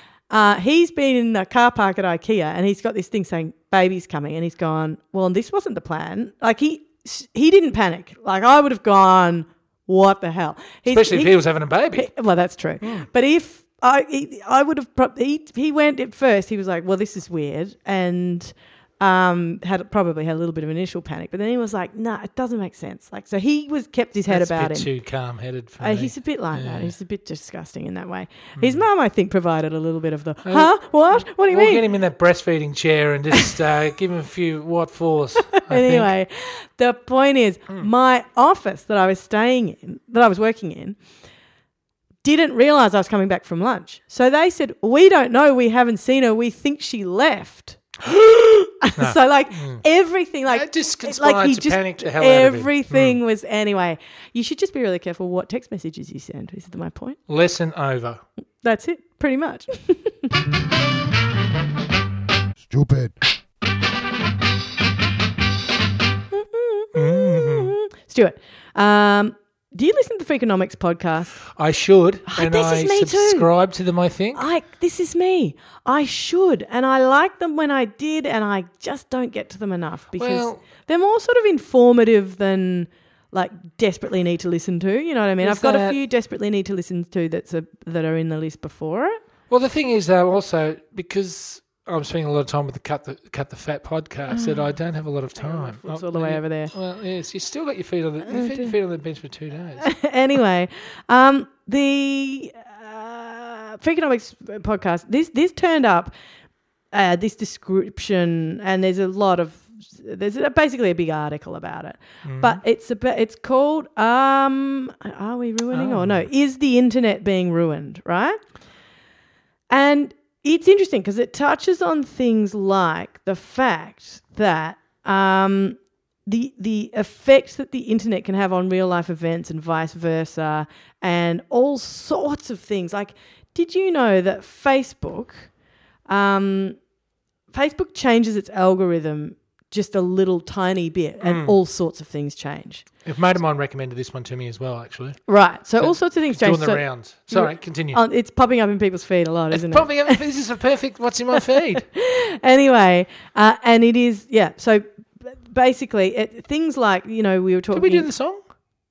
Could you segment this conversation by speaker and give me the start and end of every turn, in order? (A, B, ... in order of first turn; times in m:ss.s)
0:00.3-0:11.4 A
0:10.9-0:12.1 B
0:12.0-0:24.9 A
0:12.8-0:13.1 B
0:24.3-0:26.9 B
0:25.8-0:31.9 A
0:28.6-0:28.8 B
0:30.4-0:36.1 B
0:35.5-0:41.0 A
0:42.2-0:57.2 A
0:48.1-0:49.8 B
0:50.4-0:53.2 B
0:57.3-0:58.2 B
0:58.6-1:00.4 A
1:06.3-1:11.3 A
1:06.9-1:07.7 B
1:11.4-1:14.5 B
1:12.3-1:13.5 A
1:14.3-1:29.2 A
1:20.2-1:20.7 B
1:25.4-1:26.0 B
1:29.5-1:39.9 B
1:34.3-1:34.6 A
1:35.4-1:36.7 A
1:38.2-1:38.8 A
1:39.8-1:46.1 A
1:46.9-1:58.4 A
1:52.2-1:52.6 B
1:55.7-1:56.3 B
1:59.7-2:15.5 A
2:16.1-2:16.8 A
2:17.5-2:22.9 A
2:21.2-2:21.6 B
2:23.0-2:25.2 B
2:25.3-2:30.2 A
2:25.8-2:28.0 B
2:29.5-2:31.9 B
2:31.3-2:38.1 A
2:37.7-2:38.4 B